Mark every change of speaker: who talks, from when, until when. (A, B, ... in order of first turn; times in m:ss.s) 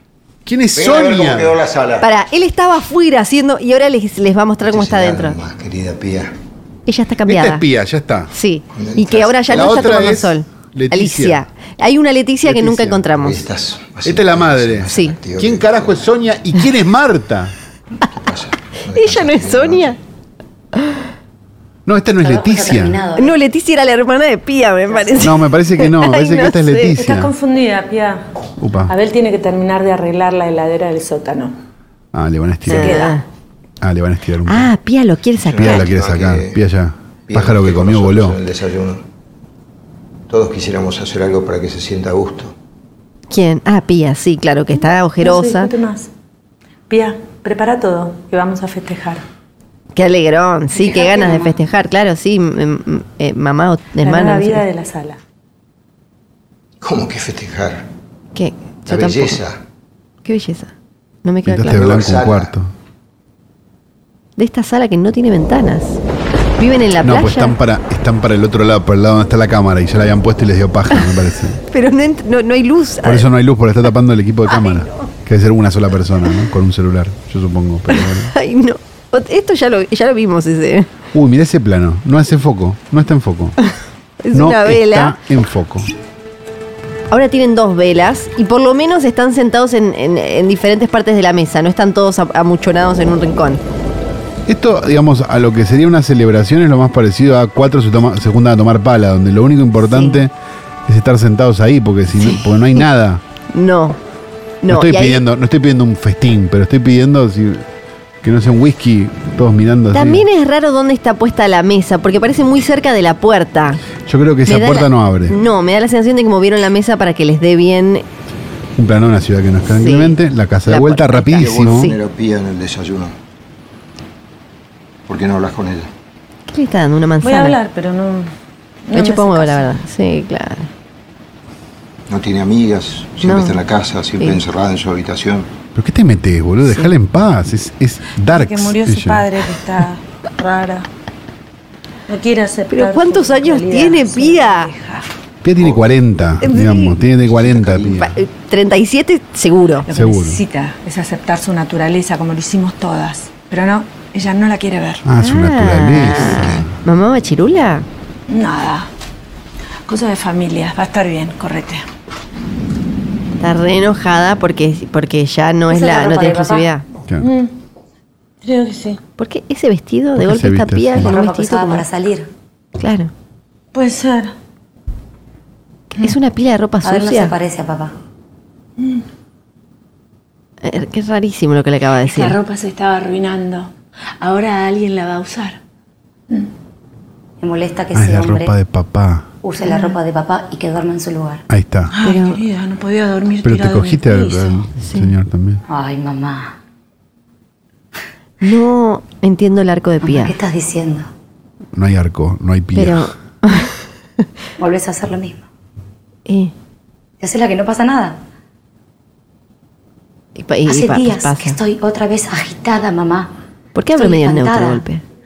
0:00.5-0:01.6 A
0:00.8-0:02.1 B
0:02.0-0:05.4 C
0:04.6-0:06.3 B
0:06.9-0:07.6 C
0:07.3-0:08.3 A
0:08.3-0:13.4 C
0:08.8-0:09.9 B
0:09.5-0:11.4 A
0:12.4-0:13.1 A
0:13.2-0:16.0 B
0:14.0-0:17.6 A
0:14.9-0:15.2 C
0:18.1-0:20.0 B
0:18.9-0:20.0 C
0:20.8-0:21.0 C
0:21.9-0:23.0 A
0:22.2-0:23.4 D
0:23.2-0:27.0 C
0:25.2-0:27.3 A
0:26.9-0:28.3 E
0:28.6-0:29.0 A
0:28.9-0:31.6 E
0:32.1-0:33.1 A
0:32.7-0:33.2 C
0:32.7-0:33.2 E
0:33.8-0:34.7 A
0:34.5-0:35.9 C
0:35.4-0:36.6 B
0:35.5-0:38.4 A
0:37.3-0:39.0 B
0:40.3-0:42.5 B
0:43.3-0:45.7 C
0:45.2-0:46.1 E
0:46.9-0:49.2 E
0:50.0-0:54.6 C
0:50.8-0:51.5 E
0:54.0-0:55.2 E
0:56.8-0:57.9 B
0:58.4-0:59.4 C
0:58.9-0:59.6 B
1:00.2-1:00.7 C
1:01.2-1:01.8 C
1:01.4-1:02.7 A
1:01.6-1:02.5 B
1:04.4-1:06.0 C
1:06.6-1:07.6 C
1:07.0-1:11.6 A
1:11.7-1:13.3 C
1:13.0-1:18.3 A
1:14.5-1:15.1 C
1:17.9-1:20.9 C
1:21.1-1:23.6 A
1:24.2-1:25.2 C
1:24.3-1:25.9 A
1:27.1-1:33.6 C
1:34.5-1:40.3 A
1:39.8-1:40.2 C
1:40.9-1:43.2 A
1:42.2-1:42.4 C
1:43.5-1:44.0 C
1:44.6-1:45.2 C
1:44.7-1:47.7 A
1:48.2-1:50.3 A
1:49.9-1:53.8 C
1:54.0-1:55.4 A
1:54.5-1:58.0 C
1:58.8-2:01.9 A
1:59.7-2:02.0 C
2:01.3-2:03.2 B
2:05.1-2:05.9 B
2:06.5-2:07.6 C
2:07.2-2:08.3 E
2:08.9-2:09.7 E
2:08.9-2:10.7 C
2:12.1-2:15.5 B
2:13.2-2:13.6 C
2:15.8-2:19.3 A
2:16.6-2:16.9 C
2:18.3-2:20.9 E
2:22.1-2:25.1 E
2:22.7-2:24.7 C
2:25.4-2:28.2 A
2:25.6-2:25.8 B
2:26.4-2:27.0 C
2:27.2-2:28.0 B
2:28.0-2:29.9 C
2:29.9-2:35.1 E
2:29.9-2:30.4 A
2:35.0-2:36.7 A
2:35.2-2:37.9 C
2:36.2-2:36.6 B
2:38.3-2:38.9 E
2:39.9-2:41.9 E
2:43.4-2:46.8 C
2:45.7-2:46.7 D
2:47.2-2:47.5 E
2:48.4-2:49.0 E
2:49.2-2:51.8 C
2:50.2-2:51.2 A
2:51.0-2:52.3 D
2:52.8-2:53.1 C
2:53.7-2:54.4 E
2:55.9-2:57.4 C
2:56.8-2:57.9 D
2:58.8-2:59.0 E
3:00.6-3:02.4 C
3:02.0-3:05.6 E
3:07.4-3:08.5 D
3:07.9-3:09.3 A
3:09.4-3:11.4 D
3:09.6-3:10.0 E
3:11.5-3:11.9 A
3:11.9-3:14.7 E
3:12.0-3:12.4 C
3:13.4-3:15.6 A
3:14.8-3:15.2 C
3:15.7-3:16.5 D
3:18.4-3:20.4 C
3:20.0-3:21.1 D
3:21.7-3:23.1 A
3:22.8-3:23.7 C
3:24.6-3:25.4 D
3:26.3-3:26.5 C
3:27.2-3:28.2 D
3:30.4-3:31.6 C
3:30.7-3:33.3 D
3:33.8-3:35.0 C
3:33.9-3:34.8 D